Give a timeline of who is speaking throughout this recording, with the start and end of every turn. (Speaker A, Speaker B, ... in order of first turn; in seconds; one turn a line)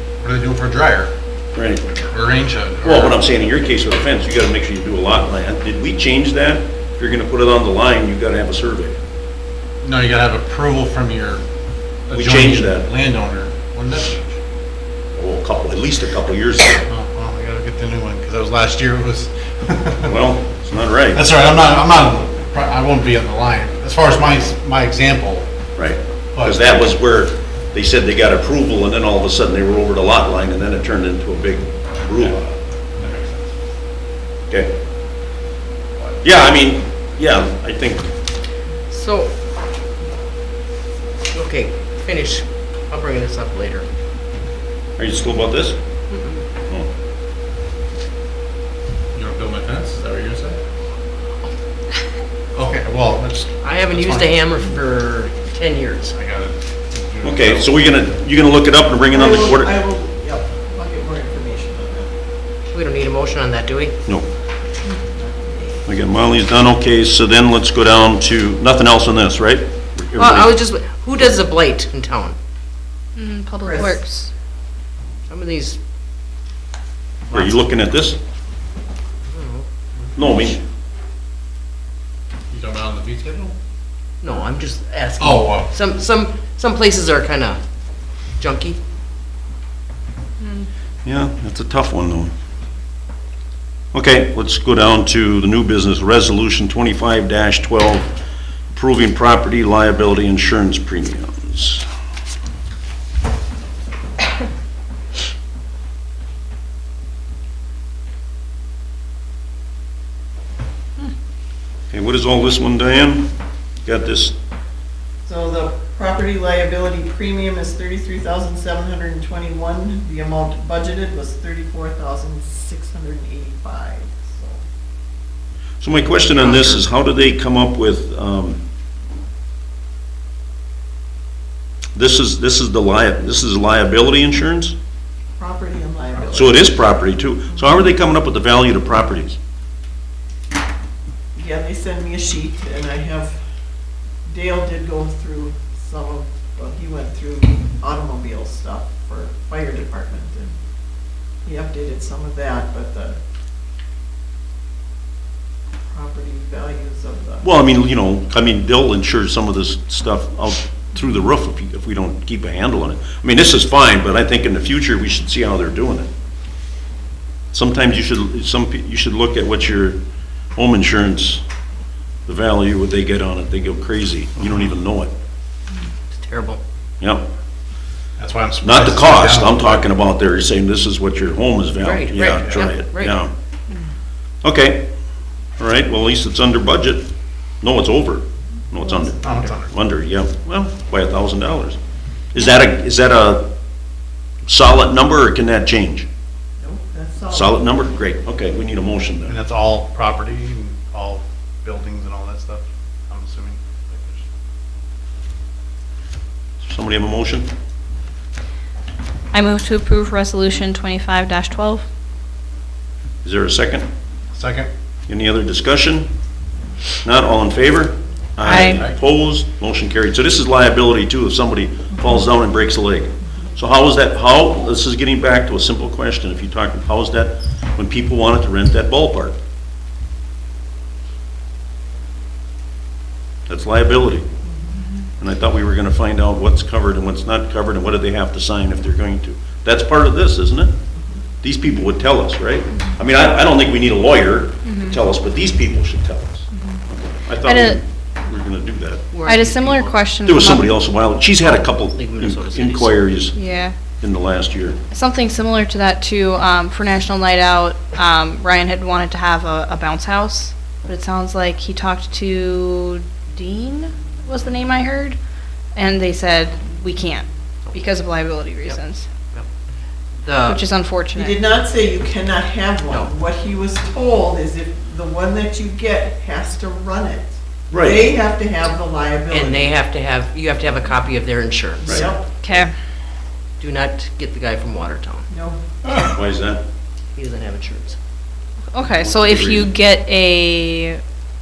Speaker A: 0.2-1.1
Speaker B: 1.6-1.9
Speaker A: 2.1-3.3
Speaker B: 2.8-9.0
Speaker A: 9.8-11.4
Speaker A: 12.1-14.4
Speaker B: 12.1-12.9
Speaker B: 15.1-16.8
Speaker A: 16.9-20.2
Speaker B: 20.1-21.2
Speaker A: 21.1-25.5
Speaker B: 25.8-32.4
Speaker A: 26.4-26.8
Speaker A: 32.2-32.5
Speaker A: 33.0-33.5
Speaker B: 36.2-38.1
Speaker C: 38.9-39.3
Speaker C: 41.3-43.9
Speaker B: 45.0-45.8
Speaker C: 46.1-46.4
Speaker A: 49.1-50.6
Speaker A: 52.5-54.4
Speaker C: 53.6-56.1
Speaker A: 56.1-57.8
Speaker B: 57.2-59.7
Speaker D: 59.1-62.1
Speaker C: 62.7-64.0
Speaker D: 65.1-65.8
Speaker B: 65.9-70.6
Speaker C: 70.2-72.4
Speaker E: 73.2-74.3
Speaker D: 73.6-74.0
Speaker C: 75.3-75.8
Speaker B: 77.3-78.2
Speaker A: 77.3-77.6
Speaker C: 79.3-79.7
Speaker B: 80.2-80.6
Speaker A: 82.5-83.5
Speaker C: 84.2-87.6
Speaker A: 85.2-85.7
Speaker C: 88.4-88.8
Speaker E: 90.4-90.7
Speaker B: 91.0-92.3
Speaker B: 93.9-98.1
Speaker B: 98.7-101.8
Speaker B: 111.9-113.3
Speaker B: 113.8-114.3
Speaker D: 115.2-124.6
Speaker B: 125.8-128.6
Speaker C: 126.2-126.8
Speaker B: 131.9-134.8
Speaker D: 135.4-136.6
Speaker B: 136.3-139.4
Speaker D: 141.4-143.4
Speaker D: 144.3-150.6
Speaker D: 151.4-153.2
Speaker D: 155.9-157.4
Speaker B: 157.4-166.1
Speaker B: 167.5-170.0
Speaker B: 170.6-171.4
Speaker B: 172.3-175.1
Speaker C: 176.1-176.6
Speaker B: 177.0-177.3
Speaker A: 178.2-179.9
Speaker B: 178.6-183.3
Speaker C: 181.8-183.2
Speaker B: 184.4-184.9
Speaker B: 185.6-187.1
Speaker B: 187.6-191.8
Speaker D: 188.8-189.3
Speaker A: 189.2-189.7
Speaker B: 192.3-193.5
Speaker B: 194.5-196.1
Speaker D: 196.6-197.6
Speaker B: 197.3-199.3
Speaker A: 199.3-204.3
Speaker B: 206.6-207.5
Speaker E: 209.3-211.8
Speaker B: 213.2-213.9
Speaker A: 214.3-214.7
Speaker B: 215.1-216.1
Speaker B: 217.0-229.4
Speaker E: 218.4-218.8
Speaker B: 233.5-234.2
Speaker D: 234.4-234.8
Speaker B: 235.2-240.7
Speaker D: 240.9-241.2
Speaker B: 241.4-249.0
Speaker E: 244.7-245.0
Speaker E: 246.5-246.8
Speaker E: 247.4-247.8
Speaker C: 249.1-250.0
Speaker E: 249.2-250.8
Speaker B: 250.2-253.3
Speaker C: 251.4-253.0
Speaker E: 253.3-253.8
Speaker B: 254.0-254.8
Speaker E: 254.9-265.2
Speaker E: 265.8-269.1
Speaker C: 270.2-270.6
Speaker E: 270.4-271.4
Speaker D: 271.1-279.7
Speaker B: 277.7-278.1
Speaker C: 279.3-282.1
Speaker D: 281.8-282.7
Speaker B: 281.9-282.1
Speaker E: 282.4-282.7
Speaker C: 283.6-285.3
Speaker D: 285.3-285.6
Speaker B: 286.0-286.6
Speaker C: 287.1-288.0
Speaker E: 288.7-291.0
Speaker B: 288.8-289.7